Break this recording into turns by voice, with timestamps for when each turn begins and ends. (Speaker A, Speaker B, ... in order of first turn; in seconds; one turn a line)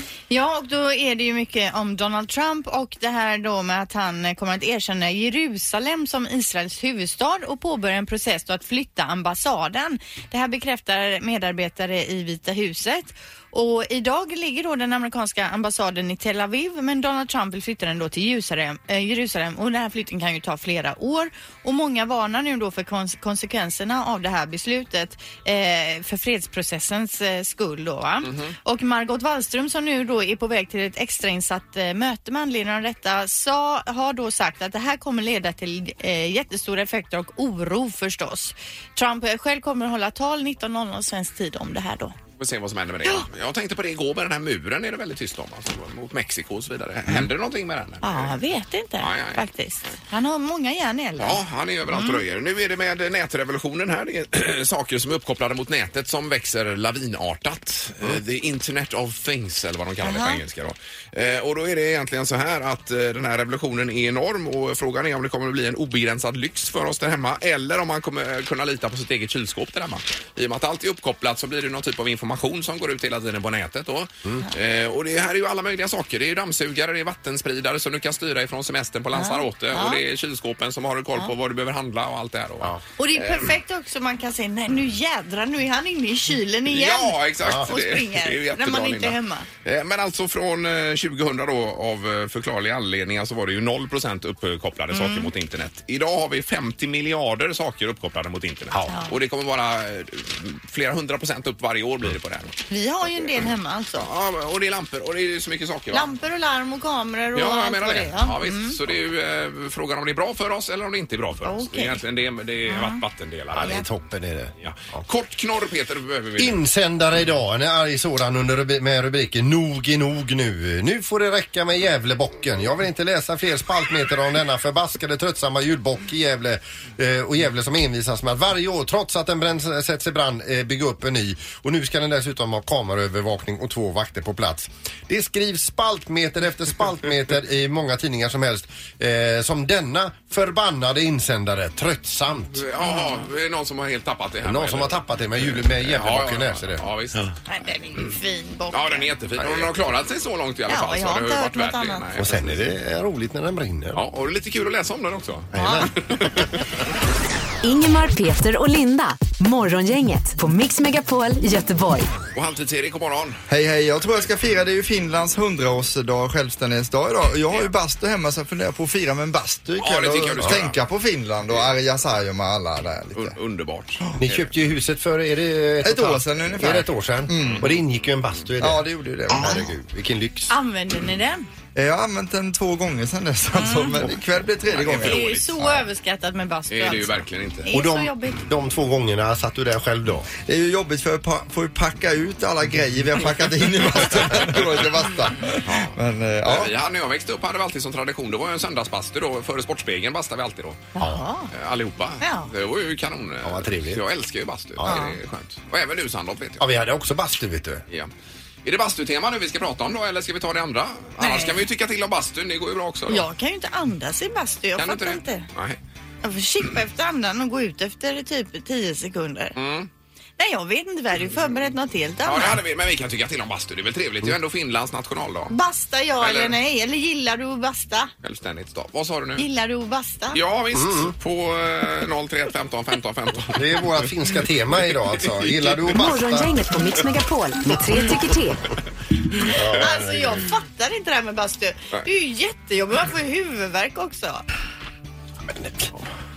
Speaker A: 0.3-42.1
Speaker B: 28.2-28.6
Speaker B: 42.4-48.3
Speaker A: 48.0-52.2
Speaker B: 49.0-49.4
Speaker B: 51.2-83.5
Speaker A: 60.0-60.4
Speaker A: 79.1-80.0
Speaker A: 83.0-89.5
Speaker B: 86.7-102.6
Speaker C: 87.4-87.7
Speaker A: 94.9-95.3
Speaker C: 98.7-99.0
Speaker A: 98.9-99.2
Speaker A: 102.7-104.1
Speaker B: 103.2-106.1
Speaker A: 105.9-108.8
Speaker B: 107.3-113.8
Speaker A: 111.4-112.0
Speaker A: 112.7-113.0
Speaker C: 113.5-115.0
Speaker B: 114.6-116.6
Speaker C: 116.4-142.7
Speaker B: 142.5-147.3
Speaker A: 142.8-143.1
Speaker C: 144.4-146.8
Speaker A: 147.5-149.1
Speaker B: 148.7-152.7
Speaker C: 149.4-149.7
Speaker A: 150.7-152.0
Speaker C: 152.2-154.0
Speaker B: 153.9-156.6
Speaker C: 155.5-156.4
Speaker A: 155.6-155.9
Speaker D: 157.6-162.1
Speaker B: 162.3-163.4
Speaker E: 163.5-173.3
Speaker B: 169.8-170.8
Speaker B: 173.1-174.5
Speaker C: 174.2-180.5
Speaker E: 175.8-177.8
Speaker B: 177.4-177.8
Speaker E: 178.6-179.6
Speaker A: 180.5-181.5
Speaker E: 181.7-185.8
Speaker A: 183.5-184.0
Speaker B: 184.7-185.5
Speaker A: 185.0-188.4
Speaker B: 186.7-187.7
Speaker C: 187.7-190.3
Speaker E: 190.4-196.7
Speaker B: 195.6-200.8
Speaker A: 200.9-201.5
Speaker C: 201.0-201.2
Speaker B: 201.5-206.6
Speaker A: 202.2-202.5
Speaker C: 203.4-204.0
Speaker C: 204.8-205.0
Speaker A: 204.8-205.2
Speaker C: 206.6-207.8
Speaker B: 208.6-213.3
Speaker A: 211.2-211.6
Speaker A: 213.1-215.5
Speaker B: 214.8-215.8
Speaker A: 216.2-219.5
Speaker B: 219.6-219.9
Speaker A: 220.4-222.6
Speaker B: 222.2-225.5
Speaker A: 225.5-228.1
Speaker B: 226.2-226.6
Speaker B: 228.2-229.4
Speaker A: 229.4-230.4
Speaker B: 230.3-234.0
Speaker C: 230.7-231.1
Speaker C: 233.5-236.5
Speaker B: 235.2-235.9
Speaker D: 235.9-238.6
Speaker C: 239.4-240.4
Speaker A: 239.7-244.4
Speaker C: 245.4-246.1